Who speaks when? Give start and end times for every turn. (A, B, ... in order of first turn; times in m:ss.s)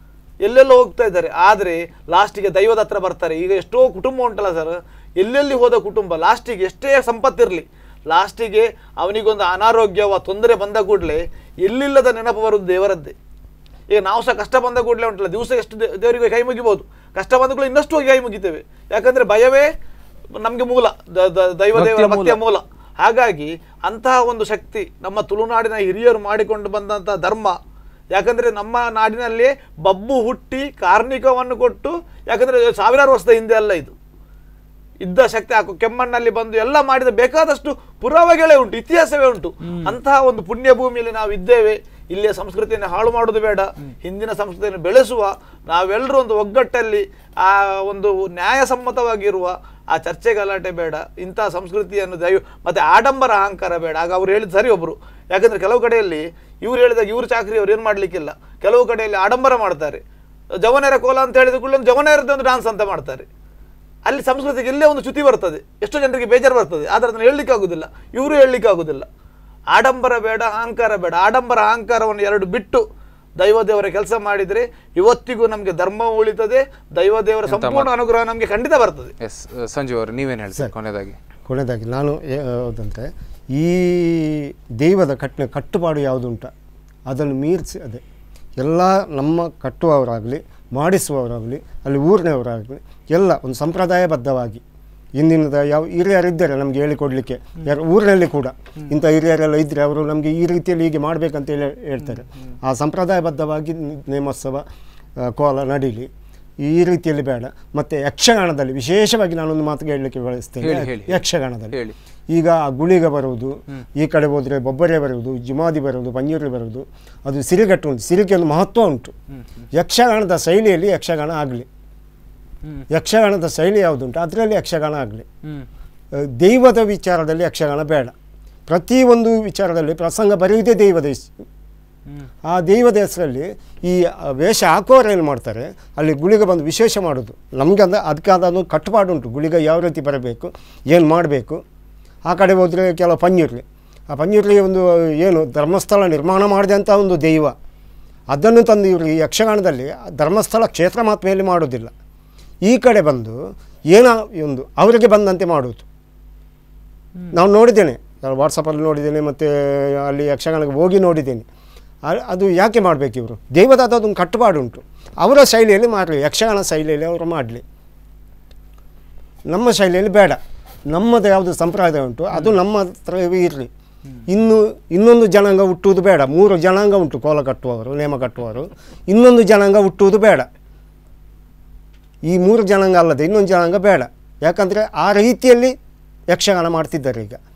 0:00.4-0:13.1 A
0:13.9-0:19.7 A
0:20.4-0:27.6 A
0:21.7-0:22.4 B
0:28.1-0:33.9 A
0:35.0-1:00.0 A
0:39.6-0:40.0 B
1:00.6-1:03.3 A
1:04.1-1:09.1 A
1:09.7-1:12.8 A
1:13.4-1:19.1 A
1:17.5-1:17.9 B
1:19.2-1:21.2 B
1:21.5-1:26.5 C
1:27.1-1:28.0 C
1:28.6-1:34.6 C
1:35.2-1:44.6 C
1:42.0-1:42.6 B
1:45.2-1:46.1 C
1:46.6-1:51.8 C
1:50.6-1:52.0 B
1:52.3-1:59.1 C
1:59.3-1:59.7 B
1:59.7-2:01.7 C
2:02.9-2:05.3 C
2:06.4-2:08.1 C
2:08.7-2:11.3 C
2:12.4-2:21.6 C
2:22.2-2:27.6 C
2:28.3-2:31.9 C
2:32.6-2:35.8 C
2:37.3-2:41.4 C
2:42.0-2:47.6 C
2:49.5-2:53.7 C
2:54.3-3:00.5 C
3:02.3-3:05.8 C
3:06.3-3:07.4 C